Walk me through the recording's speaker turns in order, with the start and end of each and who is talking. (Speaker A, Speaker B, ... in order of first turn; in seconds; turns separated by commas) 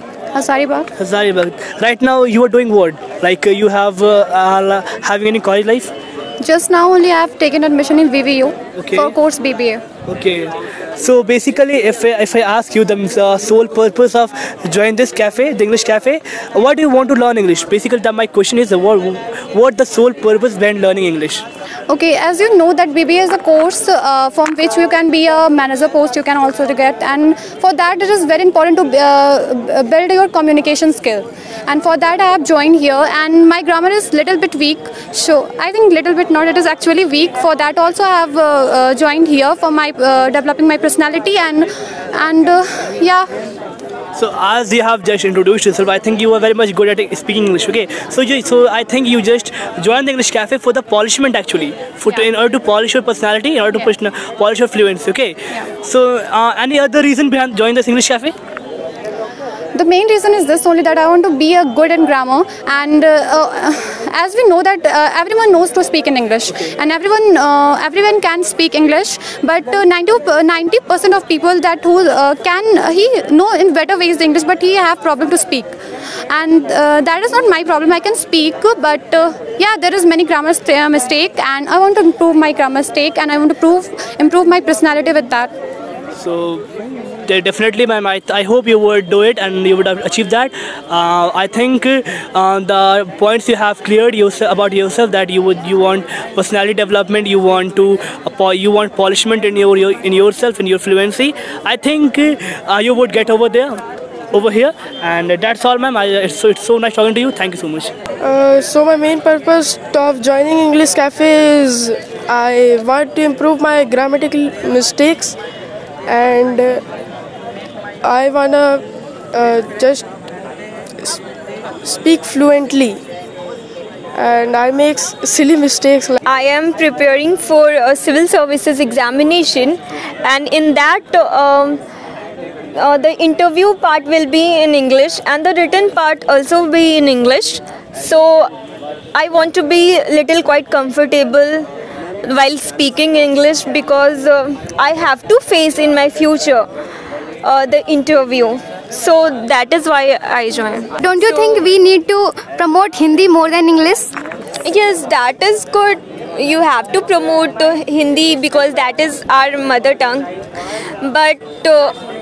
Speaker A: 0.3-0.9, Speaker B: 0.9-5.9, Speaker A: 6.4-9.8, Speaker B: 8.8-9.1, Speaker B: 10.1-21.4, Speaker A: 21.9-43.3, Speaker B: 44.1-58.3, Speaker A: 59.7-75.7, Speaker A: 76.3-85.5, Speaker B: 86.1-86.6, Speaker B: 87.2-107.9, Speaker C: 108.2-115.3, Speaker C: 116.1-116.8, Speaker C: 118.0-120.1, Speaker C: 121.8-123.0, Speaker C: 124.1-126.2, Speaker D: 126.2-131.8, Speaker D: 132.7-138.5, Speaker D: 139.1-141.7, Speaker D: 142.2-146.7, Speaker D: 147.4-151.7, Speaker E: 151.0-154.1, Speaker D: 154.6-160.3, Speaker D: 161.0-161.9